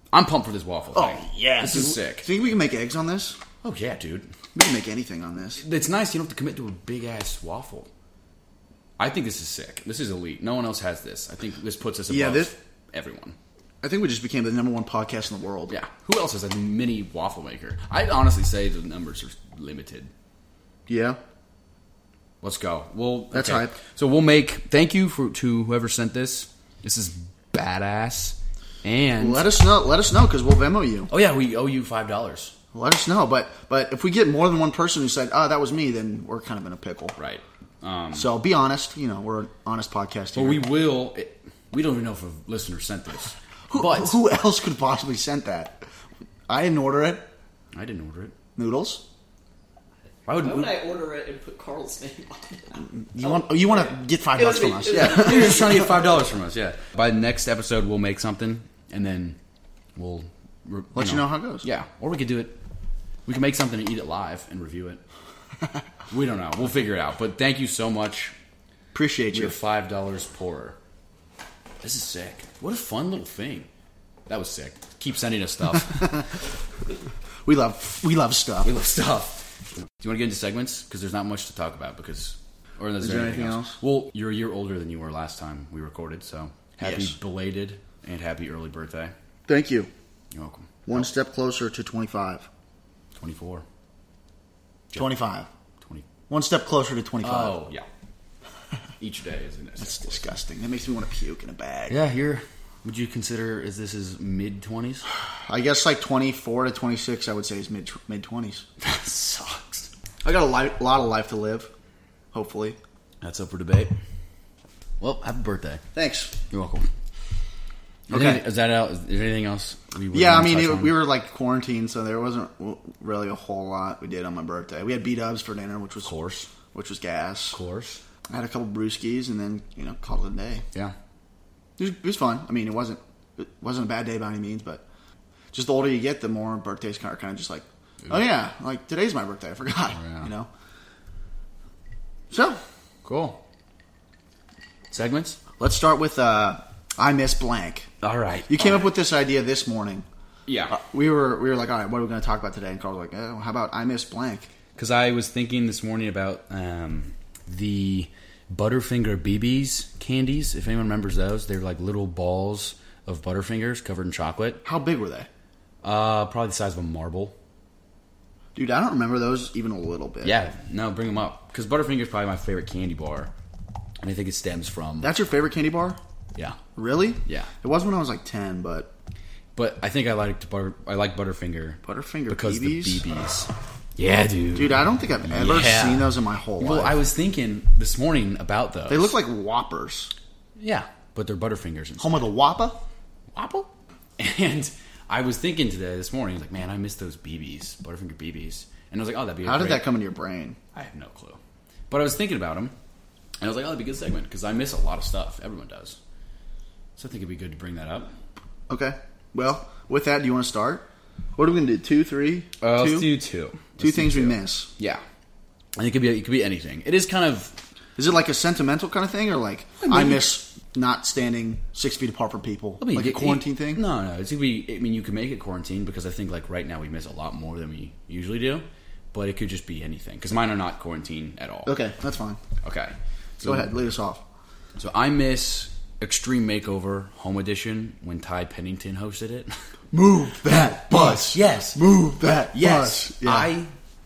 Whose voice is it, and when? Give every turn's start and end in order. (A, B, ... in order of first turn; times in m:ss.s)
0:00.1-0:02.3 A
0:00.9-0:03.4 B
0:03.6-0:04.3 A
0:04.5-0:05.6 B
0:05.6-0:07.9 A
0:09.0-0:13.4 A
0:12.1-0:12.5 B
0:13.8-0:15.8 B
0:15.7-0:20.1 A
0:20.9-0:21.2 B
0:22.4-0:29.5 A
0:23.3-0:23.8 B
0:29.2-0:31.1 B
0:31.1-0:32.5 A
0:32.7-0:37.2 B
0:37.2-0:38.3 A
0:38.1-0:40.7 B
0:40.3-0:44.2 A
0:43.7-0:45.8 B
0:46.5-0:47.3 B
0:47.7-0:48.3 A
0:48.6-0:49.0 B
0:50.2-0:50.7 A
0:50.3-0:56.2 C
0:52.8-0:55.7 B
0:54.9-0:59.4 A
0:59.9-1:02.6 A
1:00.9-1:01.7 B
1:03.2-1:05.0 A
1:06.1-1:08.3 A
1:08.9-1:09.6 B
1:09.3-1:10.8 A
1:11.8-1:13.7 A
1:14.3-1:16.3 A
1:17.4-1:18.7 B
1:18.6-1:29.1 A
1:23.0-1:23.8 B
1:26.8-1:27.1 B
1:29.5-1:29.9 B
1:30.3-1:31.1 A
1:30.9-1:32.5 B
1:33.2-1:33.6 A
1:34.9-1:35.5 B
1:36.3-1:37.6 B
1:37.2-1:37.9 A
1:39.0-1:40.2 A
1:39.8-1:42.0 B
1:41.9-1:45.0 A
1:45.4-1:48.6 B
1:48.8-1:49.9 A
1:50.2-1:51.7 B
1:52.3-1:52.8 B
1:53.2-1:54.0 A
1:55.0-1:55.8 A
1:55.9-1:56.3 B
1:56.5-1:56.9 A
1:58.1-2:01.0 A
1:58.1-1:58.4 B
2:00.1-2:06.1 B
2:06.0-2:06.5 A
2:06.7-2:07.6 B
2:07.5-2:08.0 A
2:08.3-2:10.6 B
2:11.8-2:14.8 B
2:15.5-2:20.5 B
2:20.0-2:20.3 A
2:22.3-2:22.6 B
2:23.0-2:23.4 A
2:24.9-2:25.4 A
2:25.6-2:27.9 B
2:28.0-2:28.9 A
2:28.5-2:30.0 B
2:30.4-2:30.8 A
2:30.7-2:34.5 B
2:34.8-2:44.6 A
2:44.6-2:45.3 B
2:45.8-2:47.4 A
2:48.5-2:50.4 B
2:50.2-2:53.3 A
2:54.0-2:55.1 A
2:55.0-2:56.0 B
2:56.3-2:56.6 A
2:56.8-2:58.9 B
2:57.2-2:57.5 A
2:59.5-3:09.2 A
3:01.8-3:03.0 B
3:04.5-3:07.0 B
3:08.9-3:10.1 B
3:10.6-3:12.3 A
3:12.0-3:12.8 B
3:13.3-3:19.9 A
3:19.4-3:20.6 B
3:20.7-3:21.4 A
3:21.9-3:22.7 A
3:23.4-3:26.0 A
3:27.0-3:28.1 A
3:28.7-3:33.2 B
3:32.6-3:35.0 A
3:33.8-3:34.7 B
3:35.8-3:37.6 A
3:38.0-3:43.8 B
3:39.8-3:40.3 A
3:42.8-3:51.8 A
3:51.6-3:52.4 B
3:52.6-3:53.7 A
3:53.4-3:54.2 B
3:54.8-3:59.5 A
3:59.9-4:03.5 B
4:00.4-4:03.7 A